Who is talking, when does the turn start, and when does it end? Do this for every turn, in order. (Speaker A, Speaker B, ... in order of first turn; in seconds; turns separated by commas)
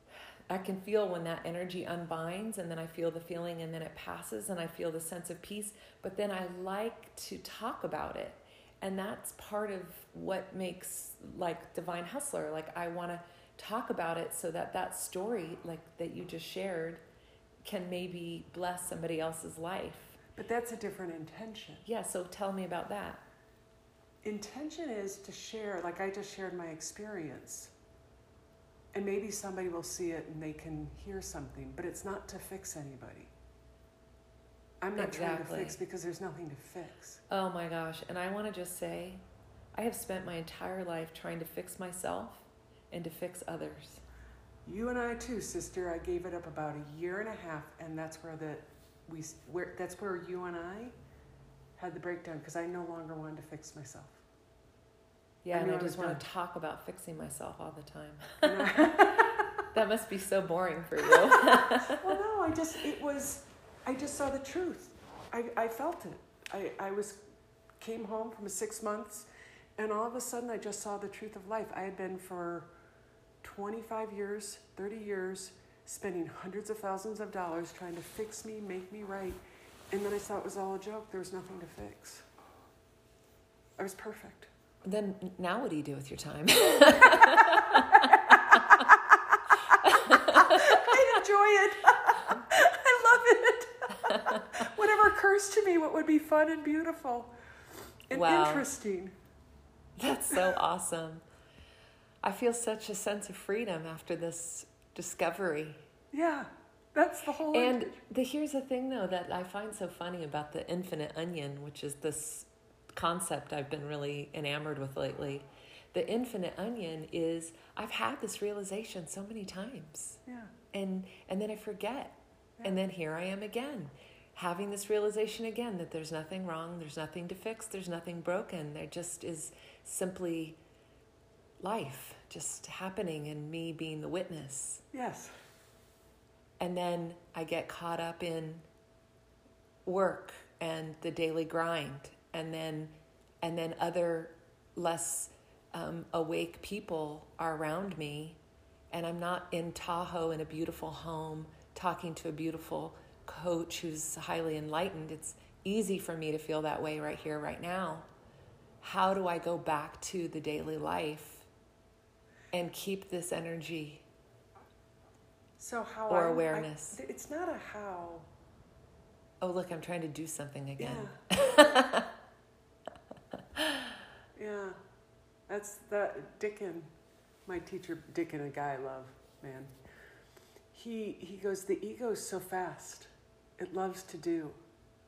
Speaker A: 0.5-17.0, Speaker A: 17.6-20.2, Speaker B: 20.4-21.8, Speaker A: 21.9-23.2, Speaker B: 24.2-27.7, Speaker B: 28.9-33.3, Speaker B: 34.8-37.2, Speaker A: 35.0-35.8, Speaker A: 37.3-39.2, Speaker A: 39.8-44.0, Speaker B: 44.6-50.9, Speaker B: 51.8-54.2, Speaker A: 55.4-62.2, Speaker B: 55.5-56.2, Speaker B: 58.4-59.6, Speaker B: 61.1-67.2, Speaker B: 67.8-72.7, Speaker B: 73.4-82.3, Speaker B: 83.8-84.5, Speaker A: 84.8-89.0, Speaker B: 87.2-89.0, Speaker A: 89.7-91.1, Speaker B: 90.1-97.3, Speaker A: 94.0-94.7, Speaker B: 98.1-99.1, Speaker A: 98.1-98.7, Speaker A: 100.0-101.2, Speaker A: 102.2-105.8, Speaker B: 106.1-108.0, Speaker A: 107.5-120.2, Speaker B: 120.3-120.5, Speaker A: 120.7-130.6, Speaker A: 131.6-134.8, Speaker B: 134.9-135.3, Speaker A: 136.6-138.7, Speaker A: 139.8-148.4, Speaker A: 148.9-158.1, Speaker A: 158.8-161.5, Speaker A: 162.5-164.1, Speaker B: 165.6-168.3, Speaker A: 166.1-167.0, Speaker A: 169.4-172.1, Speaker B: 170.8-171.2, Speaker A: 173.6-173.9, Speaker B: 174.3-174.8, Speaker B: 175.5-176.9, Speaker B: 177.5-179.8, Speaker B: 180.7-184.6